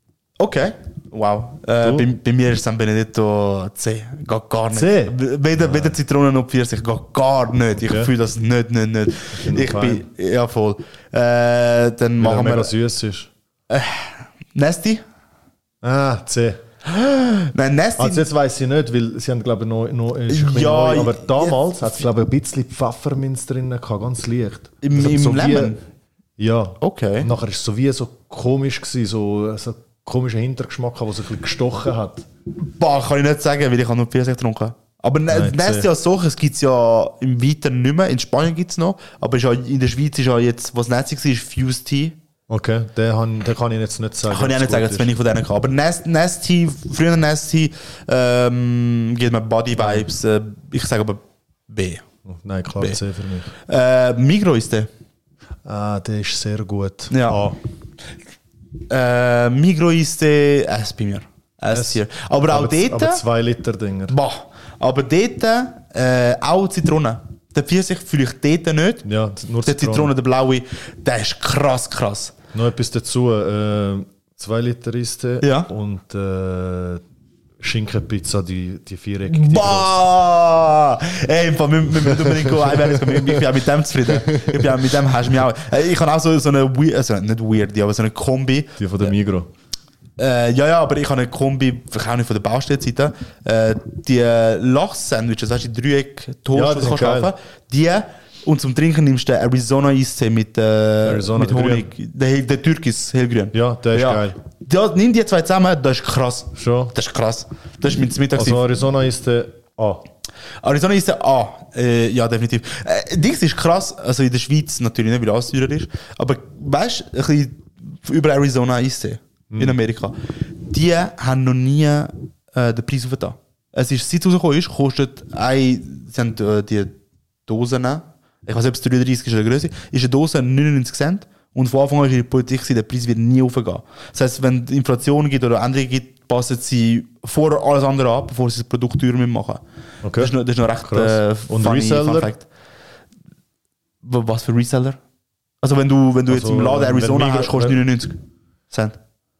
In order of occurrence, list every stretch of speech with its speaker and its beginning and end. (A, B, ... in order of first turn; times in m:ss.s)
0:00.4-0:12.7 A
0:01.8-0:02.1 B
0:04.7-0:06.0 B
0:07.8-0:08.1 B
0:09.3-0:10.0 B
0:12.2-0:13.3 B
0:13.7-0:15.0 A
0:15.8-0:16.6 B
0:16.8-0:18.2 A
0:18.0-0:25.8 B
0:20.3-0:21.7 A
0:24.8-0:25.8 A
0:26.4-0:32.2 B
0:26.8-0:27.3 A
0:32.6-0:42.2 A
0:35.3-0:35.9 B
0:42.5-0:45.1 B
0:44.3-0:52.0 A
0:49.8-0:50.0 B
0:52.3-0:53.5 B
0:53.7-0:54.9 A
0:55.6-0:57.6 B
0:57.1-0:57.4 A
0:58.9-1:03.2 A
1:01.7-1:04.2 B
1:04.1-1:09.1 A
1:09.0-1:10.1 B
1:09.6-1:12.4 A
1:12.5-1:17.0 B
1:15.4-1:15.7 A
1:17.6-1:20.1 B
1:19.3-1:29.1 A
1:22.0-1:23.5 B
1:24.0-1:25.0 B
1:28.8-1:29.5 B
1:30.2-1:48.6 A
1:36.5-1:37.3 B
1:41.0-1:41.9 B
1:43.5-1:44.4 B
1:46.6-1:46.9 B
1:48.4-1:50.0 B
1:50.6-2:07.0 A
1:59.5-1:59.8 B
2:07.5-2:19.6 A
2:20.0-2:22.3 B
2:20.2-2:22.4 A
2:24.0-2:25.0 A
2:25.6-2:28.2 A
2:26.3-2:27.8 B
2:28.7-2:29.0 A